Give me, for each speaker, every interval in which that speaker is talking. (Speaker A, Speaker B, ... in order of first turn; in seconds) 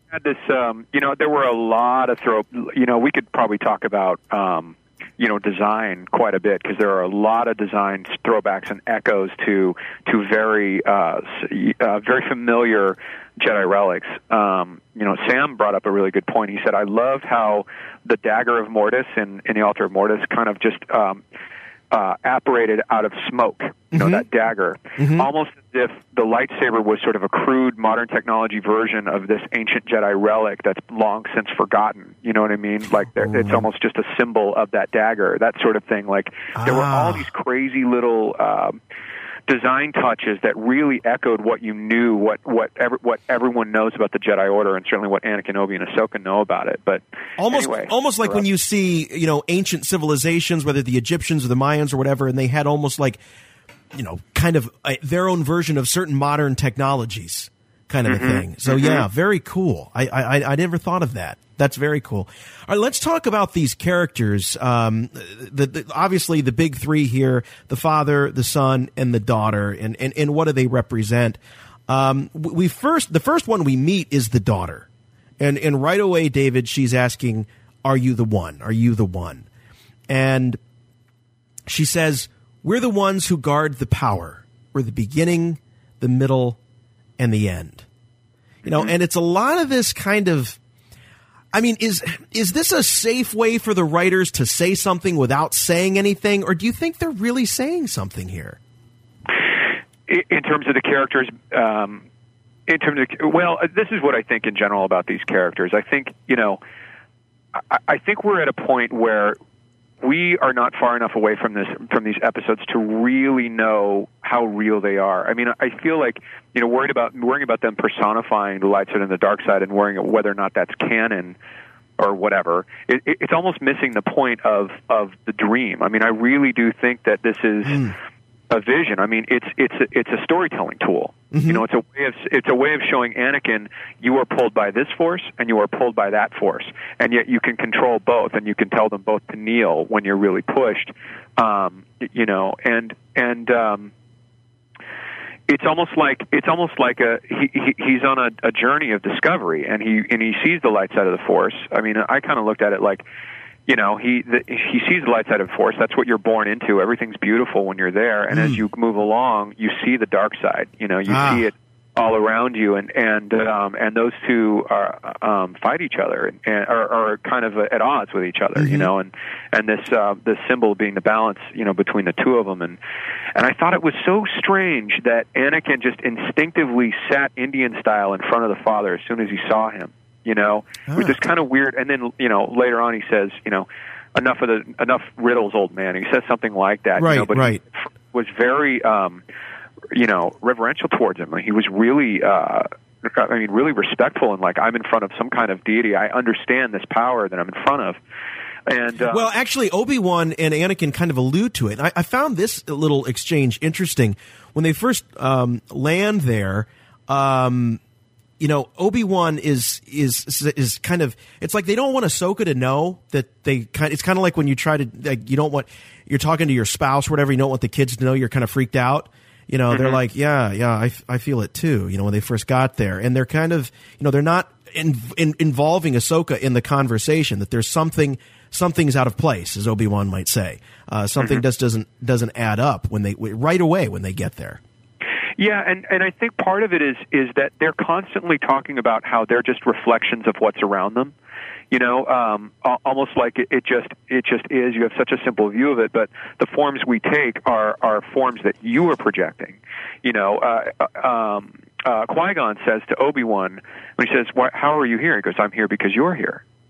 Speaker A: 0.1-21.2, 21.9-38.8, 39.5-48.4, 58.1-59.0, 100.1-102.0, 102.7-106.6, 107.6-109.4, 110.0-121.3, 122.0-127.8, 128.5-143.9, 145.5-153.0, 153.7-172.8, 173.3-189.2, 189.9-198.0, 198.7-199.3, 219.7-220.0, 231.2-231.4, 235.4-241.1, 241.7-256.4
Speaker B: 23.9-24.2, 25.0-25.3, 33.2-33.6, 36.5-37.2, 47.4-53.2, 53.9-74.9, 75.4-79.5, 80.1-80.6, 81.7-86.6, 87.2-87.8, 88.6-90.6, 91.5-98.6, 127.7-127.9, 131.3-131.6, 158.3-158.6, 161.1-161.5, 168.6-168.9, 180.9-181.2, 187.0-187.6, 199.1-207.8, 208.4-234.6